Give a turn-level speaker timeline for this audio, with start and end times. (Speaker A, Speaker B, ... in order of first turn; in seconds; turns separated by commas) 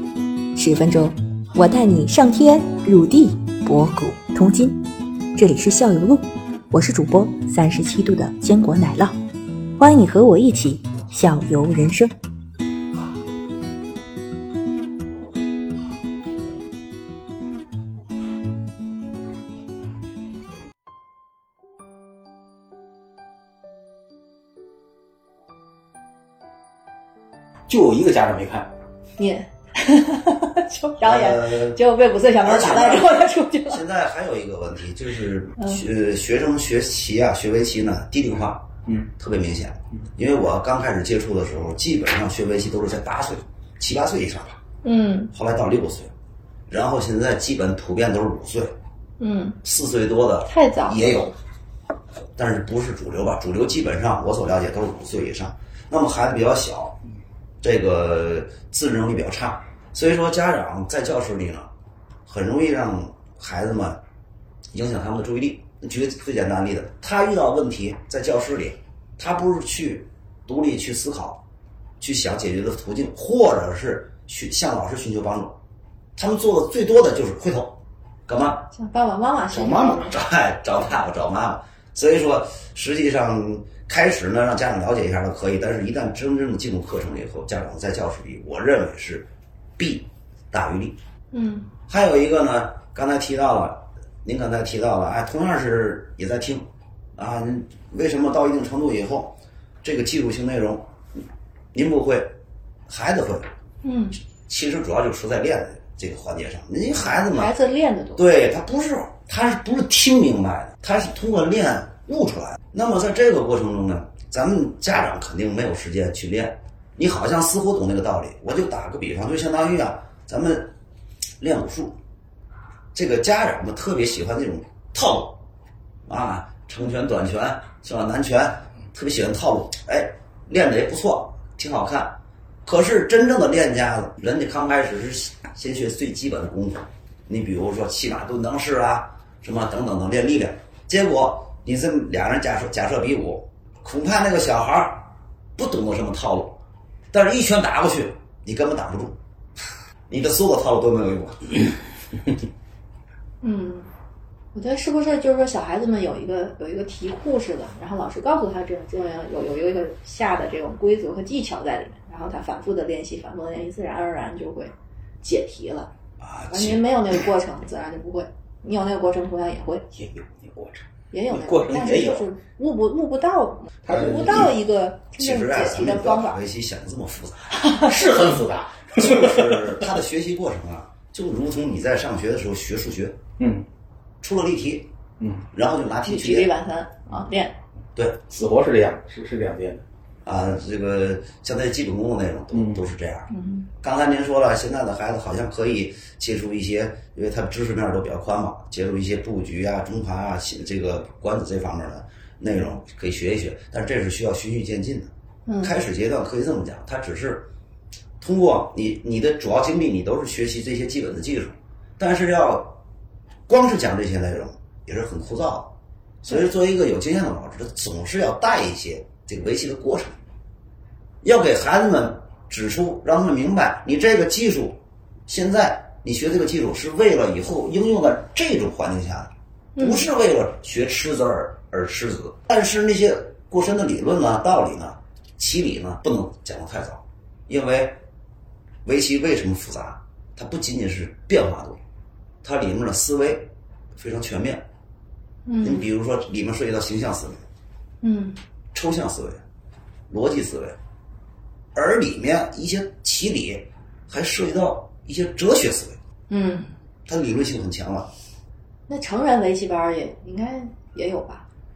Speaker A: 0.6-4.8, Speaker A: 5.3-9.2, Speaker A: 9.8-12.1, Speaker B: 27.7-28.7, Speaker C: 29.2-33.8, Speaker D: 31.0-31.8, Speaker D: 32.4-44.6, Speaker C: 44.8-45.3, Speaker D: 45.3-46.1, Speaker D: 46.7-48.7, Speaker C: 49.2-49.6, Speaker D: 49.6-51.3, Speaker C: 50.5-51.3, Speaker D: 52.4-57.0, Speaker D: 57.6-61.7, Speaker D: 62.2-64.0, Speaker D: 64.7-71.4, Speaker D: 72.0-75.6, Speaker D: 76.2-78.7, Speaker C: 78.7-80.2, Speaker B: 79.5-80.1, Speaker D: 80.0-89.3, Speaker D: 89.8-91.0, Speaker C: 91.3-91.7, Speaker D: 91.9-96.7, Speaker D: 97.2-100.9, Speaker D: 101.7-102.3, Speaker D: 102.9-103.5, Speaker C: 103.8-104.2, Speaker D: 104.5-107.5, Speaker C: 107.3-108.2, Speaker D: 108.2-120.7, Speaker D: 121.4-122.0, Speaker D: 122.9-125.4, Speaker D: 126.1-146.6, Speaker D: 147.1-149.2, Speaker D: 150.1-151.6, Speaker C: 153.4-153.9, Speaker C: 154.5-165.9, Speaker D: 166.2-167.2, Speaker C: 166.5-169.8, Speaker B: 169.9-172.3, Speaker C: 171.1-176.4, Speaker B: 173.8-174.5, Speaker D: 173.9-174.5, Speaker D: 175.2-177.5, Speaker B: 177.6-179.8, Speaker D: 179.0-183.2, Speaker B: 183.4-183.6, Speaker D: 184.2-184.9, Speaker B: 185.2-185.4, Speaker D: 185.5-186.5, Speaker C: 186.0-187.6, Speaker D: 187.9-188.2, Speaker B: 188.3-189.8, Speaker D: 190.2-207.5, Speaker B: 192.5-192.8, Speaker C: 193.3-193.7, Speaker C: 205.4-205.7, Speaker D: 208.2-212.8, Speaker D: 213.5-220.1, Speaker D: 221.2-238.0, Speaker C: 229.8-230.1, Speaker D: 238.8-241.8, Speaker D: 242.4-244.6, Speaker C: 245.4-245.9, Speaker D: 245.6-247.4, Speaker C: 248.0-248.4, Speaker D: 248.7-249.4, Speaker D: 250.1-250.8, Speaker D: 251.7-256.0, Speaker C: 256.3-256.7, Speaker D: 257.1-258.1, Speaker C: 258.9-261.4